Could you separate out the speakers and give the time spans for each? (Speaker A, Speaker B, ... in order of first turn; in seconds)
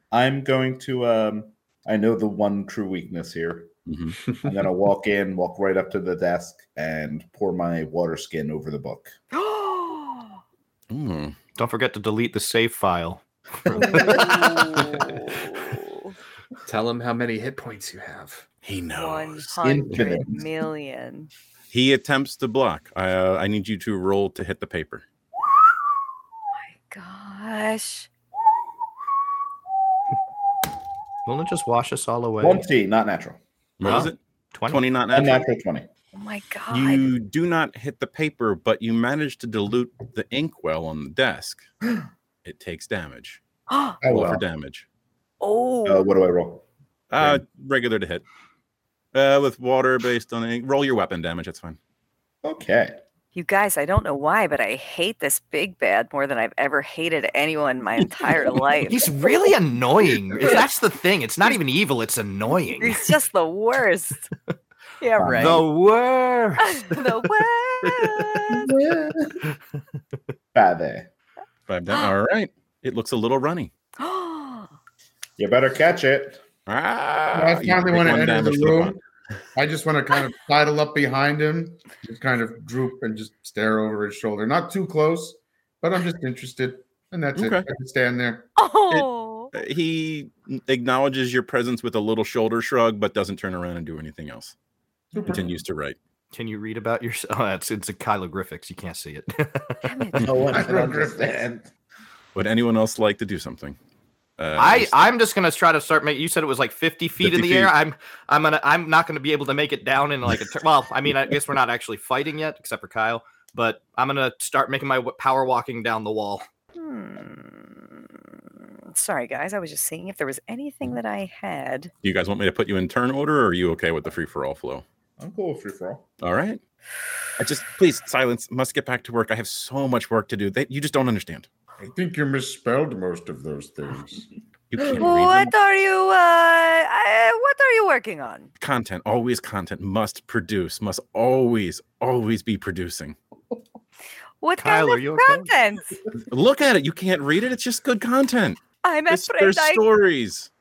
Speaker A: 0.1-3.7, 4.4-9.1, 19.6-20.4, 32.4-33.4, 35.1-35.9, 45.9-46.6, 52.4-53.0, 65.2-65.7, 68.5-69.4, 70.5-71.1, 75.4-76.4, 100.2-101.7, 125.2-126.1
Speaker B: 3.9-4.2, 10.9-11.4, 18.6-19.6, 21.7-25.0, 33.8-35.4, 36.7-41.7, 42.4-43.4, 44.0-44.9, 47.1-48.2, 49.1-51.8, 71.7-73.7, 76.7-79.0, 87.3-87.7, 88.9-94.5, 95.3-96.0, 102.3-103.8, 104.4-105.0, 107.2-107.7, 122.0-124.8, 126.2-126.6, 127.4-131.5, 134.7-135.5, 138.6-143.2, 146.2-150.5
Speaker C: 9.3-10.4, 13.8-16.1, 18.9-21.3, 26.7-28.1, 36.1-37.0, 43.7-44.0, 45.4-46.1, 53.4-59.1, 62.8-64.3, 65.0-65.7, 66.6-68.7, 74.0-74.7, 88.6-89.5, 99.8-100.3, 116.8-118.4, 118.9-121.9, 134.8-138.5, 144.4-146.0, 148.8-149.8
Speaker D: 11.6-14.2, 31.3-32.6, 33.8-34.8, 58.9-63.1, 65.3-68.5, 96.3-99.8, 104.6-116.5, 144.6-145.5
Speaker E: 16.6-18.5, 19.9-20.2
Speaker F: 44.0-44.4, 77.3-79.0, 79.5-88.5, 95.1-95.6, 100.5-101.4, 131.8-134.3